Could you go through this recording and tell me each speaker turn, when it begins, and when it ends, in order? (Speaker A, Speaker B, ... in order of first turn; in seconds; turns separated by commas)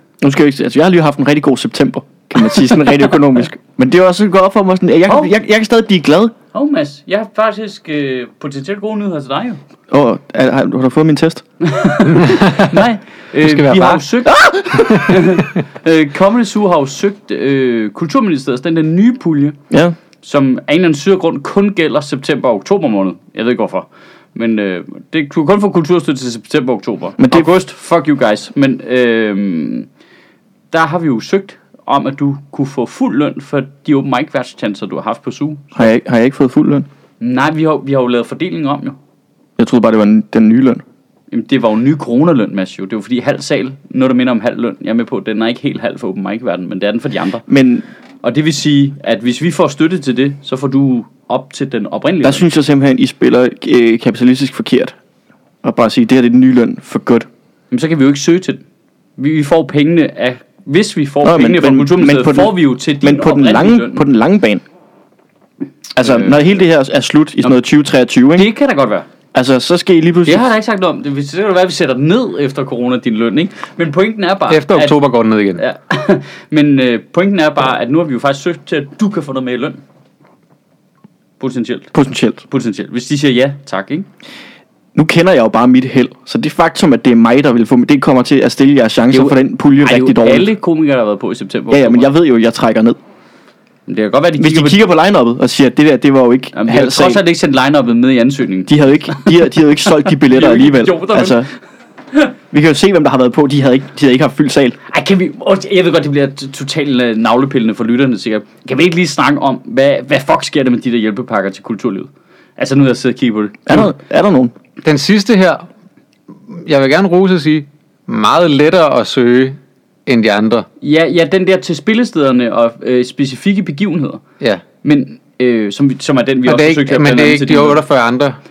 Speaker A: 0.2-6.3, Speaker B: 5.1-5.3, Speaker B: 6.5-9.6, Speaker A: 9.9-11.4, Speaker B: 11.6-19.6, Speaker C: 12.1-12.9, Speaker C: 13.4-14.0, Speaker A: 14.3-15.1, Speaker C: 14.9-15.1, Speaker A: 19.7-19.9, Speaker B: 20.2-29.9, Speaker A: 27.2-27.5, Speaker B: 30.7-35.9, Speaker A: 35.7-36.9, Speaker B: 37.2-39.0, Speaker A: 39.6-40.8, Speaker B: 41.3-47.5, Speaker A: 47.5-47.8, Speaker B: 48.2-52.5, Speaker A: 52.2-54.9, Speaker A: 55.6-57.3, Speaker B: 57.7-58.6, Speaker B: 59.2-64.0, Speaker A: 61.2-64.6, Speaker A: 66.0-68.5, Speaker B: 66.0-66.5, Speaker B: 68.3-69.1, Speaker A: 69.3-70.5, Speaker B: 70.2-75.0, Speaker C: 74.5-75.6, Speaker B: 75.6-79.8, Speaker B: 81.4-81.9, Speaker A: 81.9-82.4, Speaker B: 82.5-84.1, Speaker A: 84.9-90.5, Speaker B: 89.1-92.1, Speaker A: 91.7-93.0, Speaker B: 93.9-94.8, Speaker A: 94.4-97.2, Speaker B: 96.5-99.3, Speaker A: 98.7-101.5, Speaker B: 100.2-101.4, Speaker A: 102.5-104.8, Speaker B: 104.9-113.8, Speaker A: 113.7-114.5, Speaker C: 114.8-115.7, Speaker C: 116.5-120.7, Speaker B: 120.8-124.2, Speaker B: 124.8-127.8, Speaker C: 126.5-128.4